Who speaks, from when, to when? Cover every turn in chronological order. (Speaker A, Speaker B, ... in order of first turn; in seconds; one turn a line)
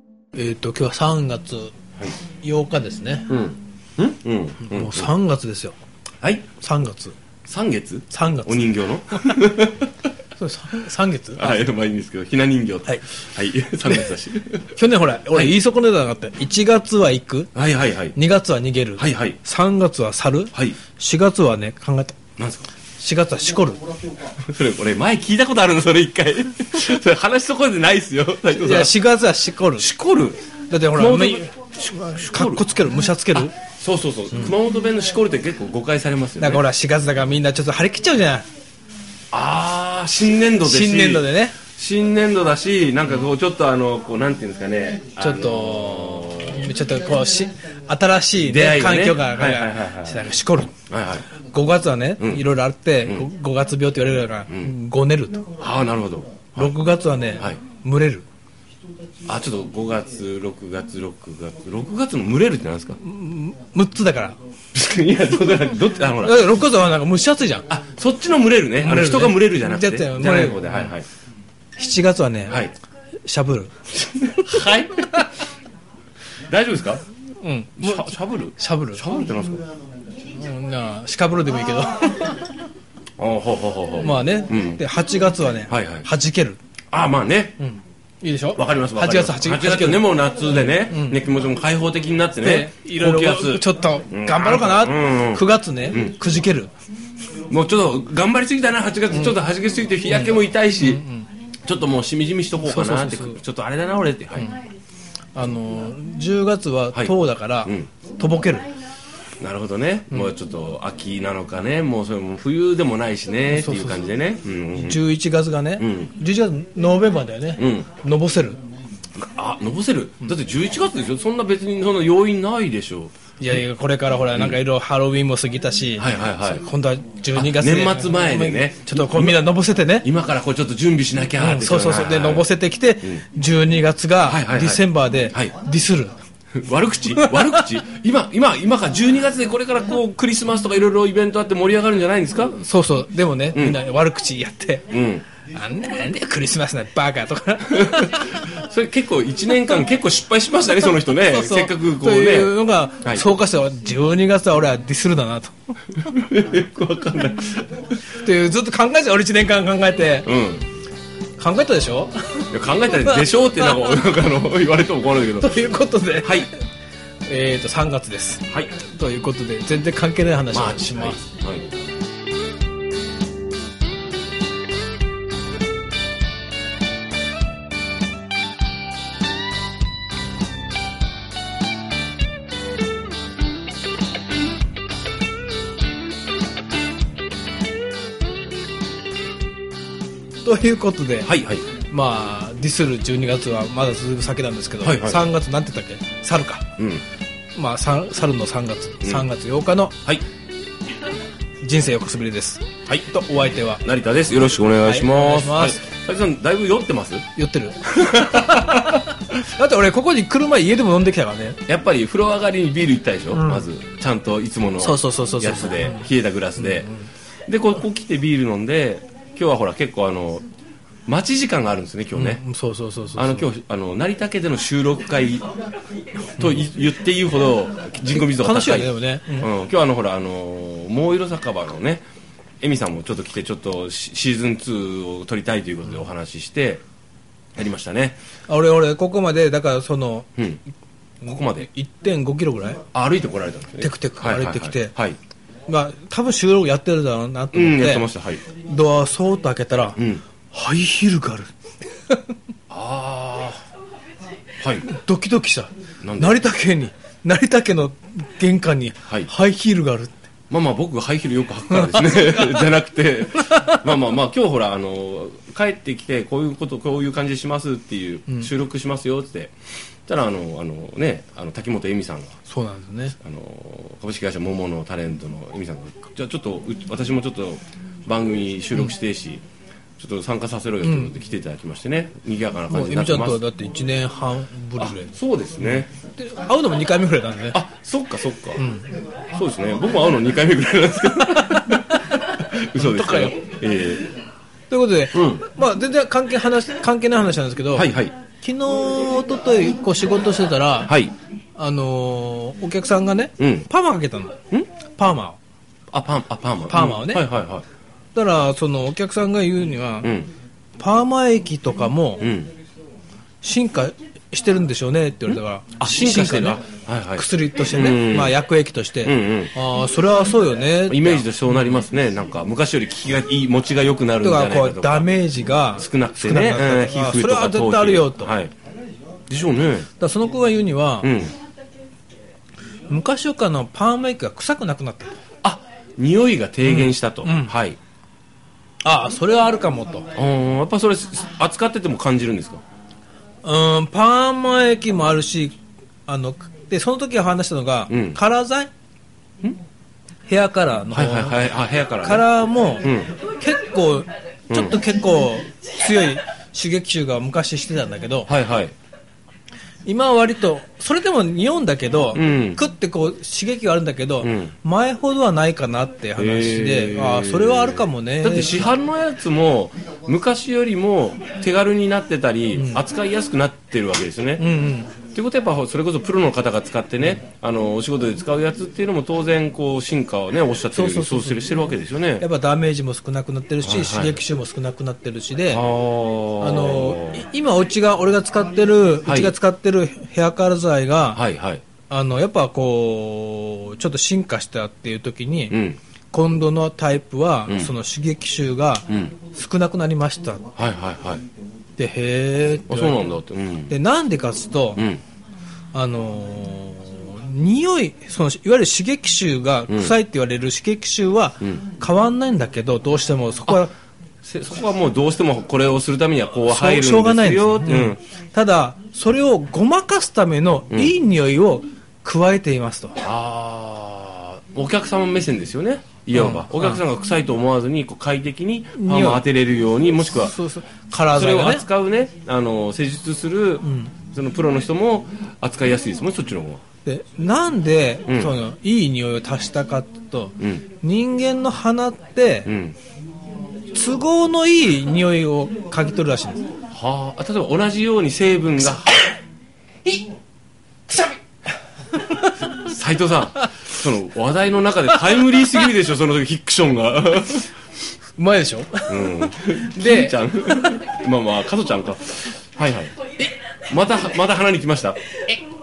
Speaker A: 0.3-1.7
Speaker A: 2.4-3.3
Speaker B: 3.3-5.1
Speaker A: 4.6-5.7
Speaker B: 6.2-6.5
Speaker A: 6.6-7.2
Speaker B: 7.5-9.9
Speaker A: 8.1-8.7
Speaker A: 10.3-11.6
Speaker B: 11.3-14.8
Speaker A: 13.8-14.1
Speaker A: 14.7-17.5
Speaker B: 17.5-18.2
Speaker A: 18.1-22.2
Speaker B: 19.0-19.4
Speaker B: 22.4-22.7
Speaker A: 23.0-23.8
Speaker B: 24.4-29.0
Speaker A: 28.5-29.9
Speaker B: 29.8-30.4
Speaker A: 30.7-33.5
Speaker B: 30.9-32.6
Speaker B: 33.3-36.6
Speaker A: 36.4-38.5
Speaker B: 39.3-46.6
Speaker A: 40.6-41.5
Speaker A: 45.2-50.7
Speaker B: 48.4-50.2
Speaker B: 50.9-51.2
Speaker A: 51.5-55.5
Speaker B: 52.2-52.4
Speaker B: 55.6-56.7
Speaker A: 56.5-58.2
Speaker B: 59.2-63.0
Speaker A: 63.0-64.4
Speaker B: 64.7-66.6
Speaker A: 66.2-67.7
Speaker B: 67.7-71.1
Speaker A: 68.8-70.9
Speaker A: 71.8-72.7
Speaker B: 72.5-72.7
Speaker A: 73.2-73.8
Speaker B: 74.1-75.3
Speaker B: 76.5-77.0
Speaker A: 77.4-79.0
Speaker B: 77.8-79.7
Speaker A: 80.3-82.6
Speaker B: 83.2-84.8
Speaker A: 84.0-86.6
Speaker B: 85.7-86.1
Speaker B: 86.9-87.6
Speaker A: 87.6-91.2
Speaker B: 88.5-96.1
Speaker A: 92.4-96.7
Speaker B: 97.5-101.0
Speaker A: 99.1-99.4
Speaker A: 100.1-101.3
Speaker B: 101.6-104.5
Speaker A: 102.6-103.4
Speaker A: 105.3-108.7
Speaker B: 109.4-115.0
Speaker A: 113.5-114.0
Speaker A: 114.7-118.6
Speaker B: 115.8-116.1
Speaker B: 117.6-117.9
Speaker B: 119.2-123.6
Speaker A: 123.4-130.1
Speaker B: 124.3-124.6
Speaker B: 126.0-126.7
Speaker B: 127.3-132.5
Speaker A: 131.4-136.2
Speaker B: 134.2-135.5
Speaker B: 136.5-142.6
Speaker A: 137.1-137.7
Speaker A: 142.6-144.9
Speaker B: 143.5-143.8
Speaker B: 144.9-145.2
Speaker A: 145.5-148.6
Speaker B: 147.7-153.3
Speaker A: 151.1-155.8
Speaker B: 156.0-158.0
Speaker A: 158.1-160.3
Speaker B: 160.2-160.7
Speaker A: 161.4-164.0
Speaker B: 162.5-166.5
Speaker A: 165.4-166.6
Speaker A: 167.3-171.2
Speaker B: 168.5-168.7
Speaker B: 170.5-171.7
Speaker A: 190.4-196.7
Speaker B: 191.2-191.6
Speaker B: 194.8-195.3
Speaker B: 196.8-197.0
Speaker A: 197.5-200.0
Speaker A: 201.6-203.8
Speaker B: 203.6-207.2
Speaker A: 204.8-205.8
Speaker A: 207.3-211.6
Speaker B: 208.0-209.0
Speaker B: 211.7-216.9
Speaker A: 213.3-213.6
Speaker A: 214.8-216.1
Speaker A: 216.6-216.9
Speaker B: 217.5-220.4
Speaker B: 221.1-222.4
Speaker A: 222.1-223.5
Speaker B: 223.2-225.5
Speaker B: 226.3-232.0
Speaker A: 228.1-229.5
Speaker B: 232.6-236.8
Speaker B: 237.6-238.2
Speaker A: 238.5-240.3
Speaker B: 241.2-241.7
Speaker A: 241.3-242.8
Speaker B: 242.9-245.2
Speaker A: 243.8-244.9
Speaker A: 245.7-248.1
Speaker B: 247.5-248.4
Speaker A: 248.7-250.0
Speaker B: 249.9-250.2
Speaker A: 250.5-251.5
Speaker B: 252.7-253.6
Speaker B: 254.6-254.9
Speaker A: 254.9-260.2
Speaker B: 256.0-256.4
Speaker B: 260.5-272.3
Speaker A: 261.7-262.7
Speaker A: 263.4-263.9
Speaker A: 272.4-273.1
Speaker B: 273.2-279.4
Speaker B: 280.0-283.4
Speaker A: 280.8-281.1
Speaker A: 282.7-287.6
Speaker B: 284.8-285.9
Speaker B: 287.5-288.6
Speaker A: 288.6-288.9
Speaker B: 289.3-294.1
Speaker A: 291.4-292.2
Speaker A: 292.8-293.4
Speaker A: 294.7-301.0
Speaker B: 295.1-295.4
Speaker B: 297.7-298.1
Speaker B: 300.8-301.1
Speaker A: 301.6-304.4
Speaker B: 303.4-303.7
Speaker A: 305.0-305.4
Speaker B: 305.9-307.6
Speaker A: 306.7-307.3
Speaker A: 308.1-310.1
Speaker B: 310.0-310.3
Speaker A: 310.8-312.3
Speaker B: 312.2-312.5
Speaker A: 313.4-316.6
Speaker B: 315.3-318.4
Speaker A: 317.1-321.3
Speaker B: 319.0-319.5
Speaker B: 320.9-325.1
Speaker A: 324.2-328.4
Speaker B: 325.8-328.5
Speaker B: 329.3-329.9
Speaker A: 330.0-331.1
Speaker B: 331.0-331.3
Speaker A: 332.9-335.1
Speaker B: 335.4-337.8
Speaker A: 336.6-337.6
Speaker A: 338.8-340.1
Speaker B: 340.1-342.6
Speaker A: 343.4-348.7
Speaker B: 347.9-348.2
Speaker A: 350.3-358.3
Speaker B: 350.9-352.3
Speaker B: 352.8-353.1
Speaker B: 354.5-354.8
Speaker B: 358.3-358.7
Speaker A: 359.9-368.7
Speaker B: 362.1-362.6
Speaker B: 364.2-364.5
Speaker B: 366.1-374.4
Speaker A: 372.5-372.8
Speaker A: 374.4-374.9
Speaker B: 375.1-382.2
Speaker A: 380.7-381.4
Speaker A: 382.2-385.6
Speaker B: 383.6-384.2
Speaker B: 385.5-387.2
Speaker A: 386.4-391.2
Speaker B: 389.0-389.3
Speaker B: 391.1-391.6
Speaker A: 391.9-395.6
Speaker B: 395.5-395.8
Speaker A: 396.1-400.5
Speaker B: 397.5-397.7
Speaker B: 398.9-399.1
Speaker B: 400.6-401.2
Speaker A: 401.8-403.1
Speaker B: 402.7-403.8
Speaker A: 403.7-404.9
Speaker B: 404.8-405.0
Speaker A: 405.7-413.7
Speaker B: 409.7-409.9
Speaker B: 414.2-418.0
Speaker A: 416.5-423.0
Speaker B: 423.0-430.4
Speaker A: 426.1-426.8
Speaker A: 428.7-429.2
Speaker A: 430.1-431.6
Speaker B: 431.1-436.6
Speaker A: 433.6-433.9
Speaker A: 436.8-442.5
Speaker B: 438.1-438.3
Speaker B: 442.4-442.8
Speaker A: 443.7-446.5
Speaker B: 446.7-449.1
Speaker A: 450.9-451.1
Speaker A: 451.9-452.7
Speaker B: 452.5-457.5
Speaker A: 458.2-460.1
Speaker B: 458.9-462.9
Speaker B: 463.7-465.0